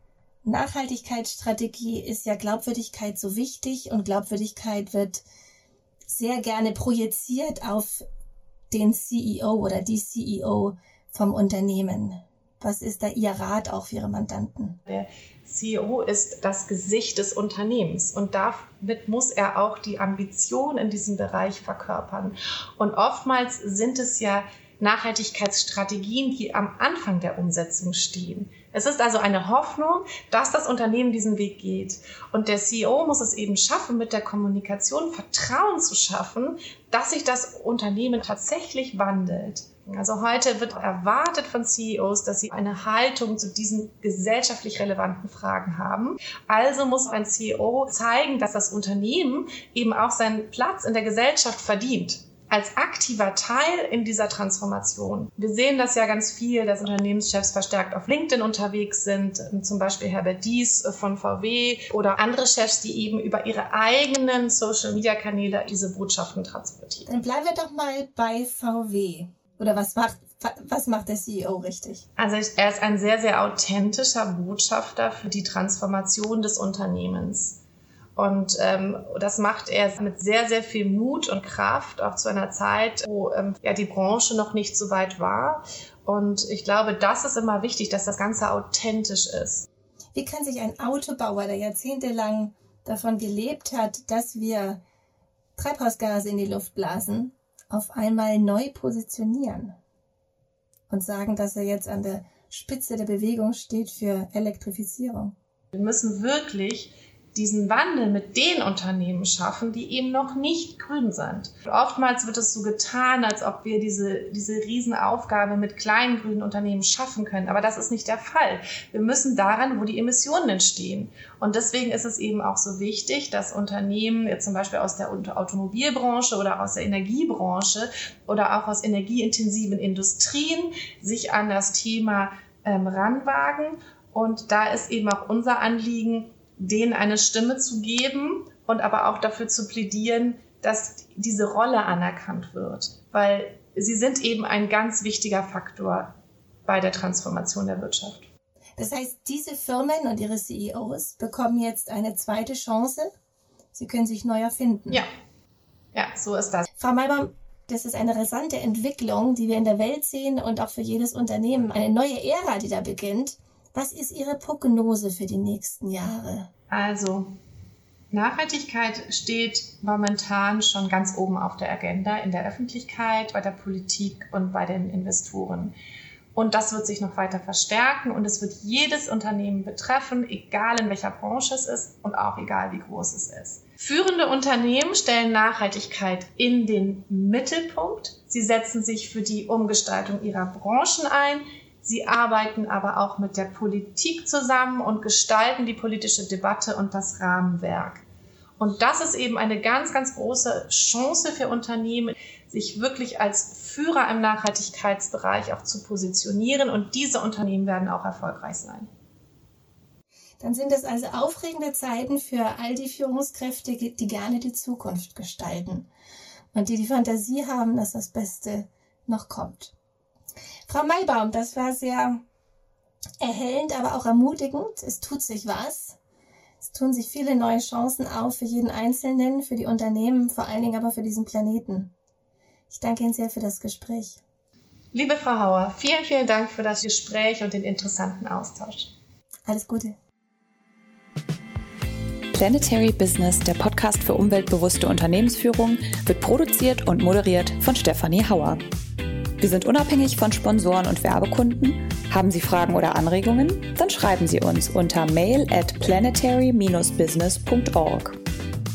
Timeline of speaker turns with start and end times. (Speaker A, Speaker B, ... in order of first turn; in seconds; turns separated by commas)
Speaker A: 0.4-5.2, Speaker A: 6.1-8.0, Speaker A: 8.7-14.8, Speaker B: 14.9-67.1, Speaker A: 67.0-72.0, Speaker B: 72.2-77.6, Speaker B: 78.2-89.7, Speaker A: 90.1-94.8, Speaker A: 95.5-99.7, Speaker A: 100.9-105.3, Speaker B: 105.7-146.1, Speaker B: 146.7-148.3, Speaker A: 148.8-153.1, Speaker A: 153.7-155.0, Speaker B: 155.9-156.7, Speaker A: 156.8-166.5, Speaker B: 166.7-167.3, Speaker B: 168.1-175.7, Speaker B: 176.3-198.0, Speaker B: 198.6-208.9, Speaker A: 210.4-215.9, Speaker A: 216.5-219.7, Speaker A: 220.7-222.2, Speaker A: 223.2-226.0, Speaker A: 226.6-231.9, Speaker A: 232.7-234.2, Speaker B: 234.9-238.9, Speaker A: 239.5-239.9, Speaker C: 242.3-248.6, Speaker C: 249.4-258.2